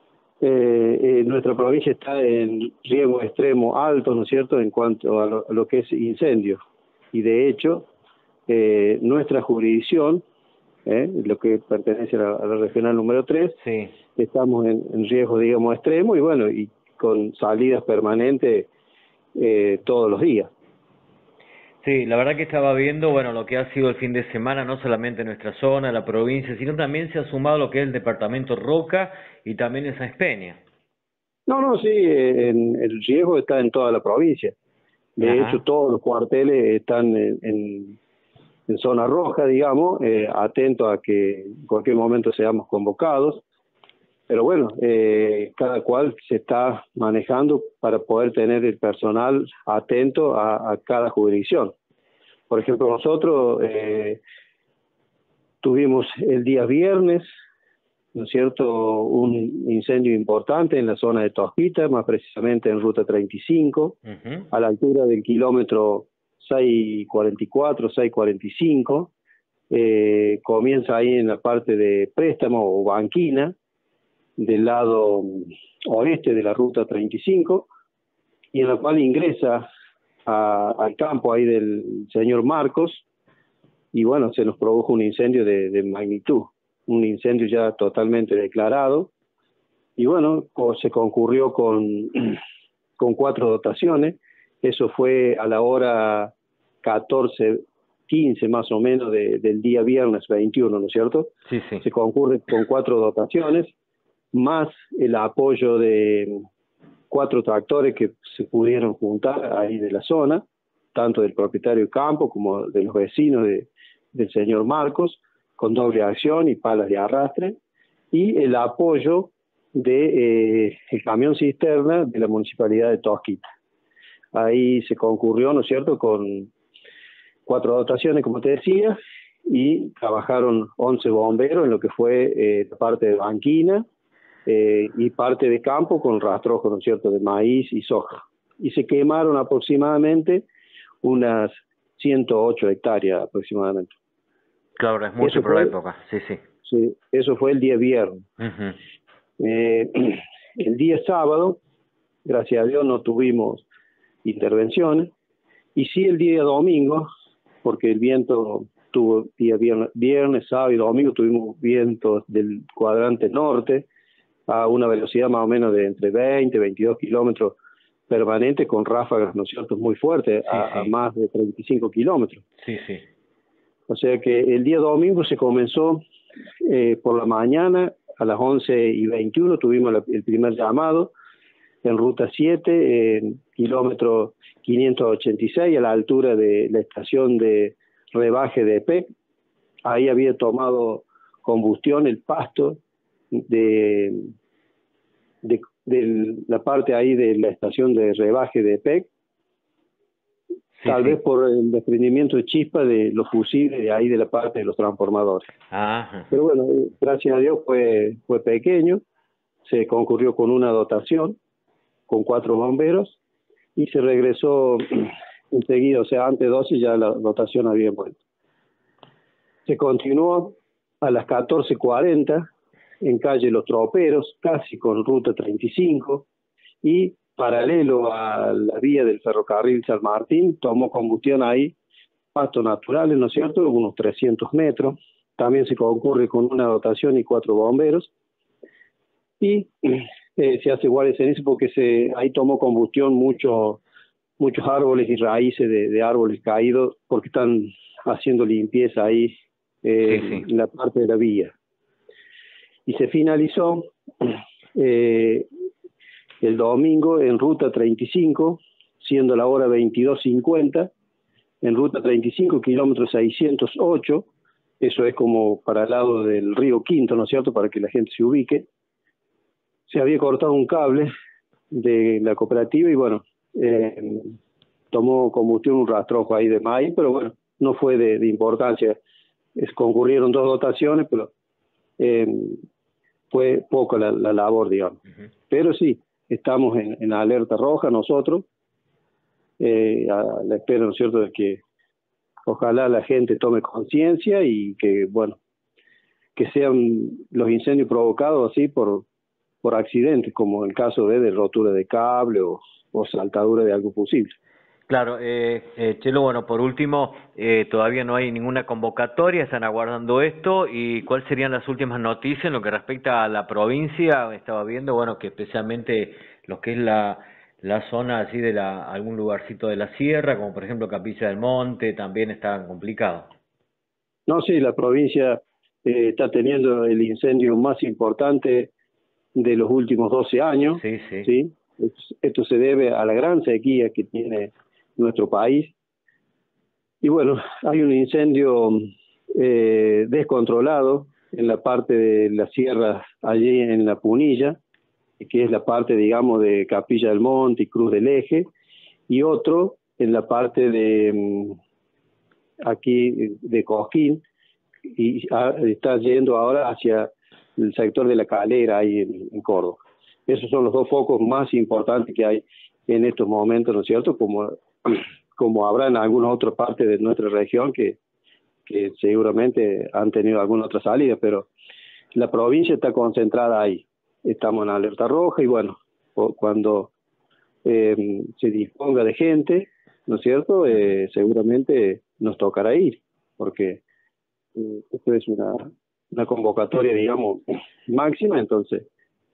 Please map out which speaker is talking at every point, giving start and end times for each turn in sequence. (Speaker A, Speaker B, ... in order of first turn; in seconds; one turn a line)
Speaker A: 0.4-6.6
Speaker A: 7.1-7.9
Speaker A: 8.5-10.2
Speaker A: 10.8-13.6
Speaker B: 13.6-13.9
Speaker A: 14.2-18.7
Speaker A: 19.4-20.5
Speaker B: 21.8-30.6
Speaker A: 31.5-34.5
Speaker A: 35.2-38.0
Speaker B: 35.2-35.6
Speaker A: 38.7-43.4
Speaker A: 44.3-51.7
Speaker A: 52.5-54.2
Speaker A: 55.6-57.3
Speaker A: 58.1-64.0
Speaker B: 64.1-64.5
Speaker A: 64.5-69.1
Speaker A: 69.7-73.5
Speaker A: 74.4-77.7
Speaker A: 78.5-79.7
Speaker A: 80.2-83.0
Speaker A: 83.9-89.1
Speaker A: 90.0-92.4
Speaker A: 93.0-96.3
Speaker A: 96.8-103.7
Speaker B: 101.5-101.8
Speaker A: 104.3-106.4
Speaker A: 107.1-110.4
Speaker A: 110.9-117.5
Speaker A: 118.1-123.4
Speaker A: 124.3-126.5
Speaker A: 127.5-129.0
Speaker A: 129.5-133.8
Speaker A: 134.4-140.4
Speaker A: 141.0-143.9
Speaker B: 144.8-146.4
Speaker A: 145.2-145.7
Speaker A: 146.6-148.3
Speaker B: 148.4-148.8
Speaker A: 149.4-151.6
Speaker A: 152.2-153.6
Speaker A: 154.2-155.1
Speaker A: 155.7-157.1
Speaker A: 157.6-163.8
Speaker A: 164.5-167.6
Speaker A: 168.1-172.4
Speaker B: 170.5-170.9
Speaker B: 172.6-173.0
Speaker A: 173.9-176.0
Speaker A: 176.6-181.1
Speaker A: 181.8-189.1
Speaker A: 189.8-192.8
Speaker A: 193.3-194.3
Speaker A: 195.4-199.1
Speaker B: 200.8-201.2
Speaker A: 200.8-205.5
Speaker B: 205.7-206.3
Speaker A: 206.3-209.0
Speaker A: 209.7-211.4
Speaker A: 212.1-213.2
Speaker A: 213.8-218.2
Speaker A: 219.7-222.4
Speaker A: 223.0-226.2
Speaker A: 226.8-231.7
Speaker A: 232.3-238.1
Speaker A: 239.4-243.8
Speaker A: 244.4-249.3
Speaker A: 249.8-251.5
Speaker B: 250.1-250.4
Speaker A: 252.8-255.5
Speaker A: 256.4-260.9
Speaker A: 261.6-264.3
Speaker A: 264.8-268.6
Speaker A: 269.9-271.1
Speaker A: 271.7-274.4
Speaker A: 274.9-279.0
Speaker A: 279.6-281.3
Speaker A: 282.0-282.6
Speaker A: 283.3-288.4
Speaker A: 289.6-291.6
Speaker A: 292.4-295.4
Speaker A: 296.4-299.1
Speaker A: 299.6-304.3
Speaker B: 304.9-323.3
Speaker A: 324.3-328.7
Speaker A: 329.4-335.7
Speaker B: 330.8-331.3
Speaker A: 337.0-344.6
Speaker A: 345.2-348.4
Speaker A: 349.1-351.6
Speaker A: 352.6-354.2
Speaker A: 354.9-367.9
Speaker A: 368.6-371.5
Speaker A: 372.1-376.9
Speaker A: 377.6-383.8
Speaker A: 384.6-388.9